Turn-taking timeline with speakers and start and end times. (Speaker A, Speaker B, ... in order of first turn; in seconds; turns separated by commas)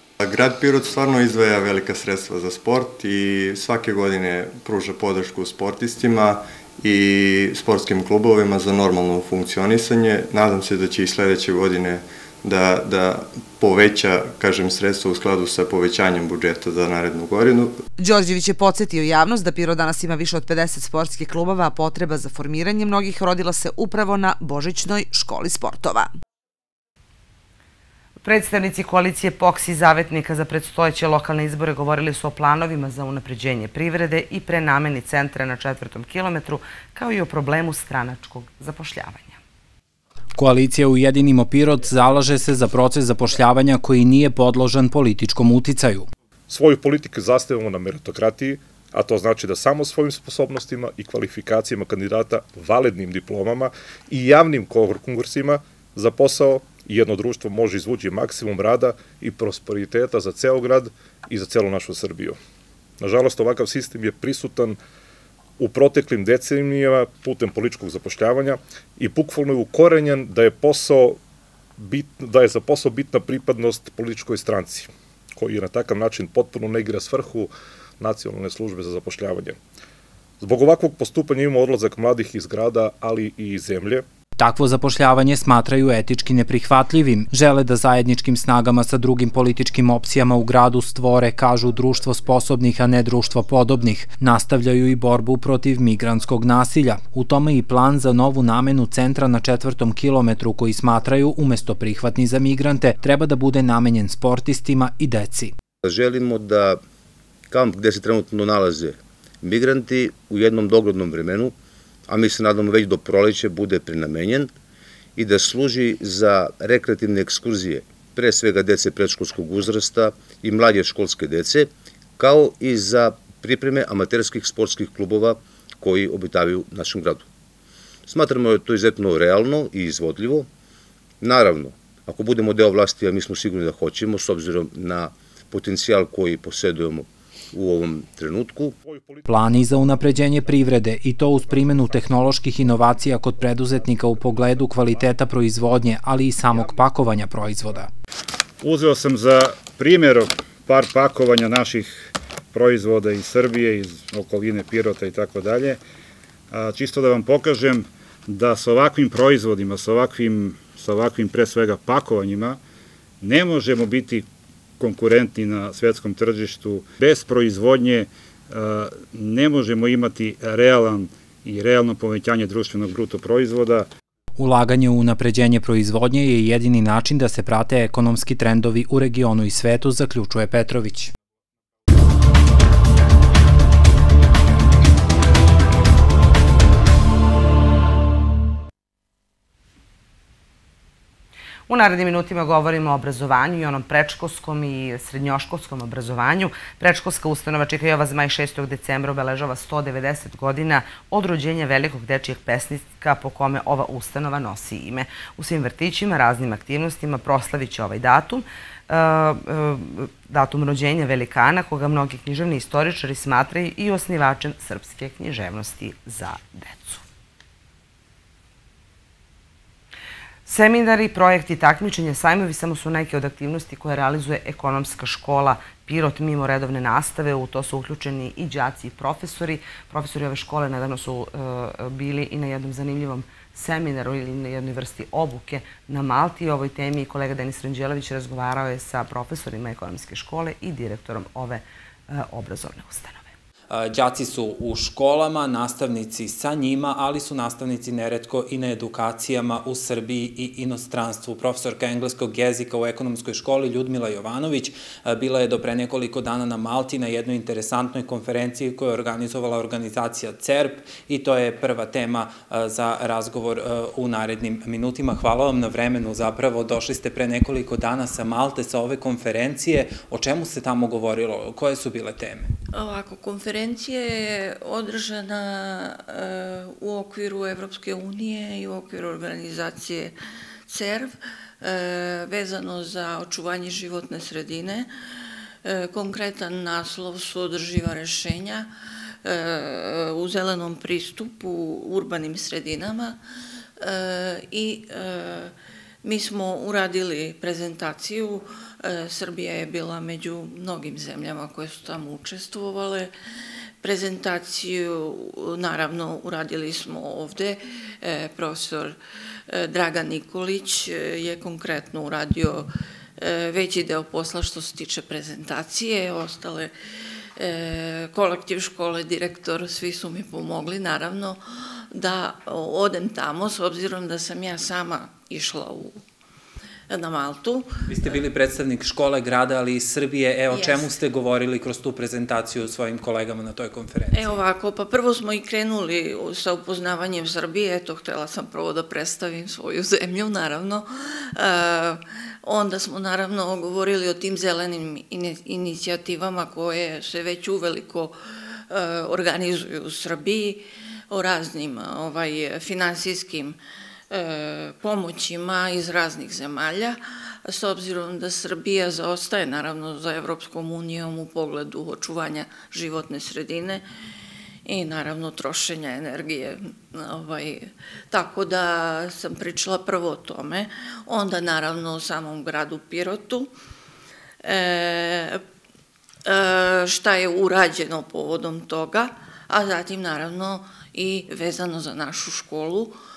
Speaker A: 0.2-17.8, Speaker B: 18.0-26.1, Speaker C: 28.2-39.4, Speaker D: 40.4-46.1, Speaker E: 46.5-62.4, Speaker E: 63.0-64.8, Speaker E: 65.6-71.2, Speaker E: 71.8-77.5, Speaker E: 78.0-79.6, Speaker E: 80.4-84.0, Speaker D: 84.4-105.5, Speaker F: 105.8-106.8, Speaker F: 107.5-111.5, Speaker F: 112.1-114.5, Speaker F: 115.2-127.3, Speaker F: 128.1-130.5, Speaker F: 131.2-138.7, Speaker E: 138.9-139.2, Speaker D: 139.3-147.9, Speaker G: 148.6-155.8, Speaker G: 156.5-162.6, Speaker G: 163.2-164.3, Speaker G: 164.8-173.9, Speaker D: 174.4-181.1, Speaker C: 191.7-217.0, Speaker C: 220.4-243.3, Speaker D: 243.7-272.5, Speaker H: 272.7-280.1, Speaker H: 280.7-284.9, Speaker H: 285.6-288.7, Speaker H: 289.2-293.2, Speaker H: 293.8-295.5, Speaker H: 296.0-303.1, Speaker H: 303.8-308.9, Speaker H: 309.5-316.7, Speaker H: 317.4-321.4, Speaker H: 321.9-326.0, Speaker H: 326.9-328.2, Speaker D: 327.9-334.4, Speaker H: 330.5-330.9, Speaker H: 334.1-348.1, Speaker H: 348.7-353.6, Speaker H: 354.1-363.8, Speaker H: 364.6-373.5, Speaker H: 374.4-375.4, Speaker H: 376.2-383.0